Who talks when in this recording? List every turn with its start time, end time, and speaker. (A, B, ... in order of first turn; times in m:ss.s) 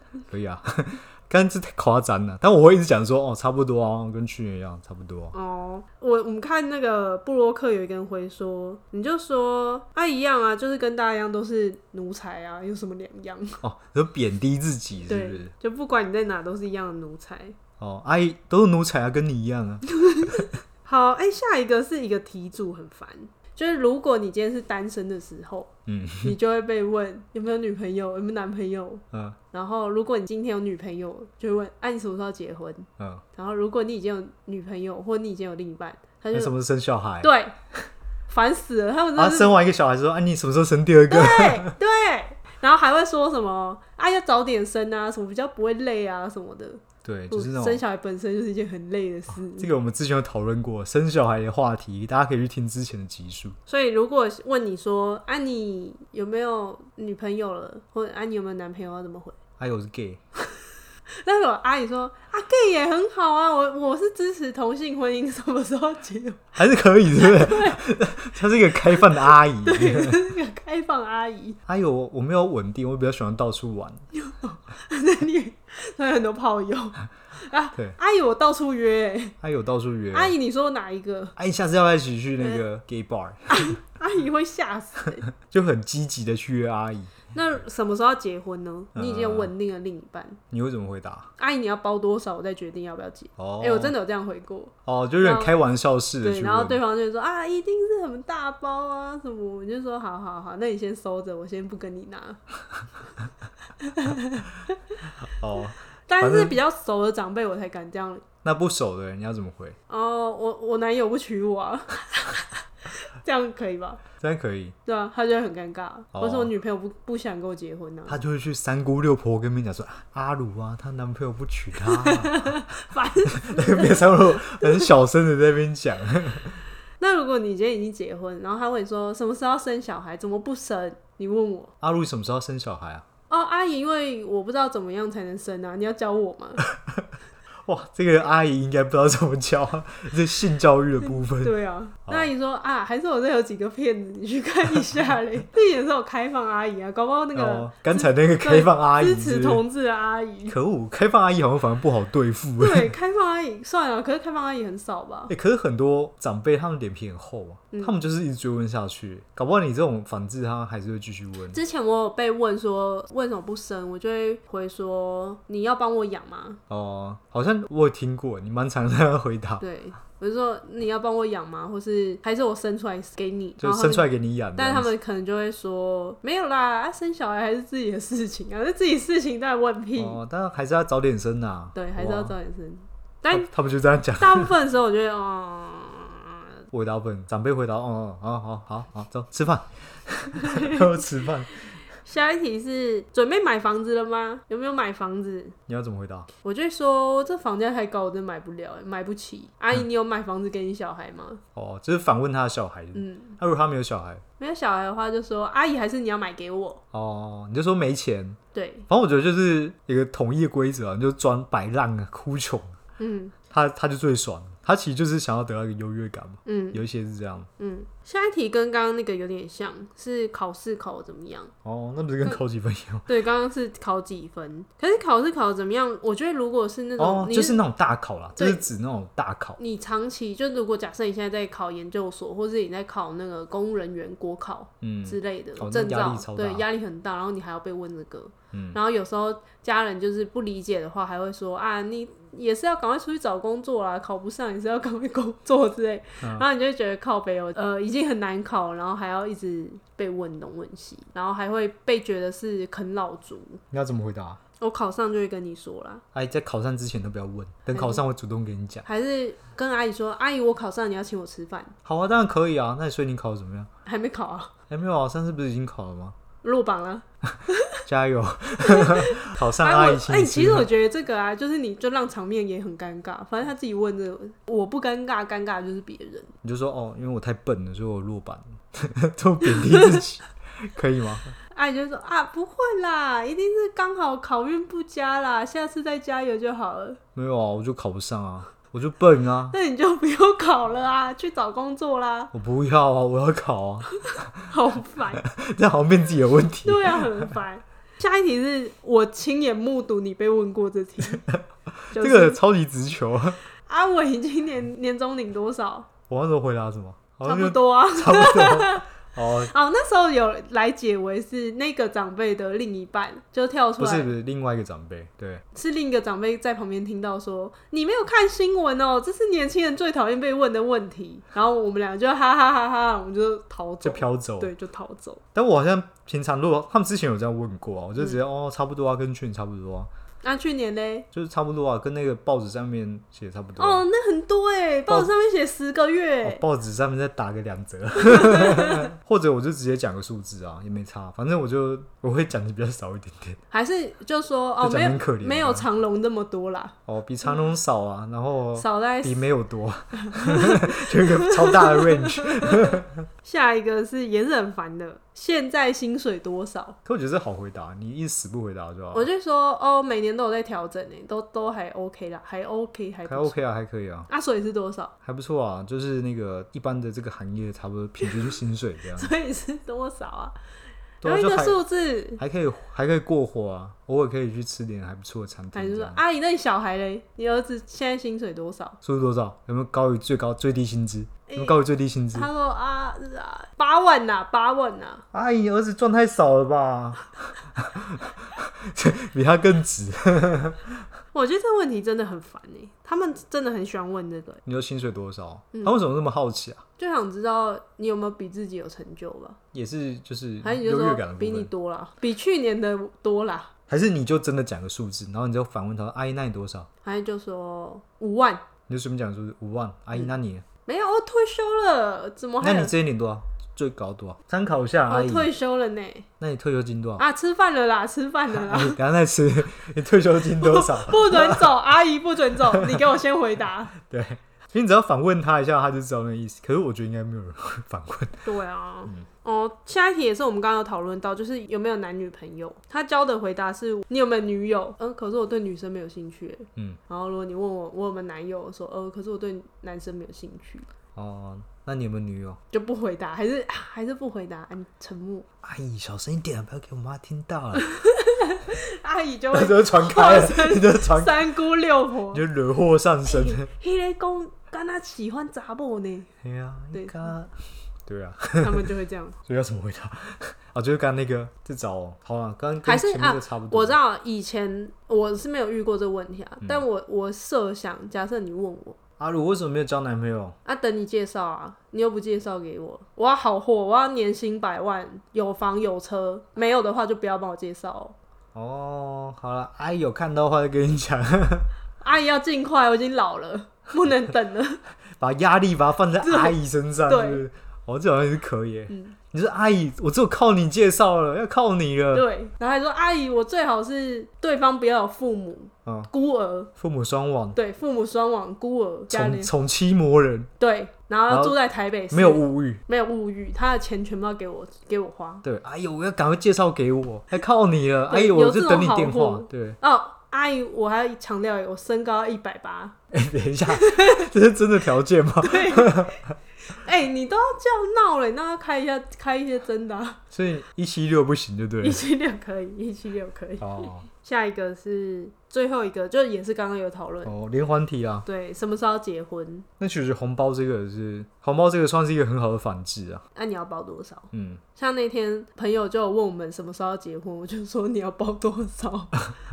0:00.3-0:05.3 A
0:05.3-0:13.6 B
0:13.6-0:15.5 A
0:15.1-0:17.5 B
0:17.8-0:19.8 A
0:20.0-0:25.7 B
0:25.9-0:26.4 A
0:26.2-0:36.5 B
0:29.1-0:29.4 A
0:36.3-0:37.3 A
0:37.2-0:37.5 B
0:38.3-0:39.6 B
0:39.2-0:41.7 A
0:41.1-0:49.7 B
0:47.0-0:47.8 A
0:49.6-0:53.6 A
0:53.7-0:59.4 B
0:59.6-1:00.2 A
1:01.2-1:06.4 B
1:06.6-1:10.2 A
1:07.2-1:07.8 B
1:09.6-1:11.6 B
1:11.7-1:14.0 A
1:14.1-1:19.4 B
1:19.4-1:20.3 A
1:20.1-1:21.4 B
1:21.4-1:23.8 A
1:22.4-1:22.6 B
1:23.5-1:25.2 B
1:25.4-1:27.3 A
1:27.3-1:30.4 B
1:28.9-1:29.5 A
1:30.5-1:31.3 A
1:31.4-1:35.5 B
1:33.4-1:33.9 A
1:34.8-1:36.8 A
1:36.2-1:42.4 B
1:43.8-1:44.5 B
1:45.4-1:46.6 A
1:46.1-1:48.2 B
1:48.4-1:49.8 A
1:49.9-1:54.0 B
1:54.2-1:54.7 A
1:54.8-1:58.2 B
1:56.1-1:56.5 A
1:58.1-2:02.6 A
2:02.0-2:04.9 B
2:03.3-2:06.6 A
2:07.0-2:11.7 B
2:11.8-2:13.0 A
2:13.3-2:16.6 B
2:17.6-2:21.5 A
2:21.0-2:30.6 B
2:27.3-2:29.6 A
2:30.5-2:32.9 A
2:32.6-2:35.3 B
2:35.3-2:41.6 A
2:41.5-2:46.6 B
2:46.7-2:49.6 A
2:49.6-3:00.2 B
2:53.6-2:54.9 A
3:00.0-3:02.3 A
3:01.7-3:03.5 B
3:03.3-3:04.5 A
3:04.2-3:06.5 B
3:06.7-3:11.6 A
3:10.4-3:10.9 B
3:12.0-3:15.6 B
3:15.7-3:16.3 A
3:16.4-3:21.4 B
3:21.5-3:24.2 A
3:22.9-3:23.4 B
3:24.4-3:26.8 B
3:26.9-3:28.4 A
3:28.5-3:28.8 B
3:28.9-3:32.7 A
3:33.0-3:33.3 B
3:33.5-3:37.5 A
3:36.4-3:36.8 B
3:37.6-3:41.5 B
3:41.6-3:43.1 A
3:43.1-3:47.6 B
3:47.0-3:49.6 A
3:48.4-3:48.6 B
3:49.6-4:13.6 B
3:54.8-3:56.6 A
3:58.5-3:58.8 A
4:06.2-4:06.5 A
4:13.7-4:14.4 A
4:14.6-4:16.0 B
4:16.1-4:18.8 A
4:17.7-4:18.0 B
4:18.8-4:21.7 B
4:21.8-4:23.7 A
4:23.8-4:24.5 B
4:24.7-4:26.2 A
4:26.4-4:27.8 B
4:27.8-4:30.7 A
4:28.7-4:36.3 B
4:36.4-4:41.3 A
4:39.6-4:40.0 B
4:41.5-4:47.0 B
4:47.1-4:49.6 A
4:49.5-4:52.3 B
4:52.3-4:53.9 A
4:54.4-4:55.2 B
4:55.2-4:57.4 A
4:56.6-5:01.2 B
5:01.1-5:03.4 A
5:01.9-5:02.4 B
5:03.7-5:05.9 B
5:06.1-5:09.5 A
5:07.2-5:08.9 B
5:09.4-5:14.1 B
5:13.8-5:15.4 A
5:15.5-5:25.2 B
5:23.8-5:24.5 A
5:25.3-5:29.9 A
5:30.2-5:31.1 B
5:31.1-5:33.8 A
5:33.6-5:36.4 B
5:36.2-5:43.4 A
5:38.0-5:38.9 B
5:43.5-5:46.7 B
5:44.6-5:45.7 A
5:46.9-5:53.0 A
5:48.6-5:49.3 B
5:50.0-5:56.8 B
5:56.8-5:59.1 A
5:58.9-6:03.4 B
6:03.0-6:04.1 A
6:04.1-6:04.9 B
6:05.0-6:09.1 A
6:09.0-6:10.3 B
6:11.0-6:11.6 A
6:11.0-6:12.2 B
6:12.2-6:16.0 A
6:15.5-6:18.8 B
6:18.8-6:22.3 A
6:21.3-6:21.6 B
6:22.1-6:25.0 B
6:25.1-6:30.8 A
6:31.1-6:34.4 B
6:34.4-6:36.6 A
6:36.8-6:39.4 B
6:39.5-6:41.5 A
6:40.4-6:43.5 B
6:43.7-6:46.7 A
6:46.8-6:48.4 B
6:48.7-6:50.4 A
6:50.6-6:52.7 B
6:52.4-6:55.3 A
6:54.9-6:56.0 B
6:56.2-6:57.0 A
6:57.0-6:58.8 B
6:58.3-7:01.5 A
7:00.4-7:03.7 B
7:02.5-7:02.8 A
7:03.8-7:08.2 A
7:08.2-7:20.6 B
7:21.0-7:22.4 A
7:22.5-7:25.2 B
7:25.4-7:27.7 A
7:27.6-7:32.2 B
7:29.3-7:31.3 A
7:32.1-7:33.5 A
7:33.0-7:36.1 B
7:36.2-7:37.3 A
7:36.7-7:37.1 B
7:37.8-7:38.6 A
7:38.4-7:39.2 B
7:39.2-7:43.8 A
7:42.6-7:48.8 B
7:49.0-7:50.4 A
7:50.4-7:58.0 B
7:58.3-8:01.5 A
8:01.8-8:04.6 B
8:05.0-8:12.0 A
8:06.0-8:07.2 B
8:08.7-8:09.0 B
8:11.9-8:16.5 B
8:16.6-8:17.4 A
8:17.3-8:19.3 B
8:18.9-8:20.3 A
8:20.4-8:25.2 B
8:21.1-8:21.4 A
8:21.9-8:22.6 A
8:25.2-8:29.6 A
8:27.9-8:32.8 B
8:32.9-8:36.0 A
8:33.5-8:34.1 B
8:35.2-8:36.0 B
8:36.5-8:40.0 B
8:40.1-8:41.9 A
8:41.6-8:47.1 B
8:43.4-8:43.9 A
8:47.0-8:48.1 A
8:48.0-8:49.5 B
8:49.6-8:53.0 A
8:53.1-8:59.1 B
8:54.1-8:54.4 A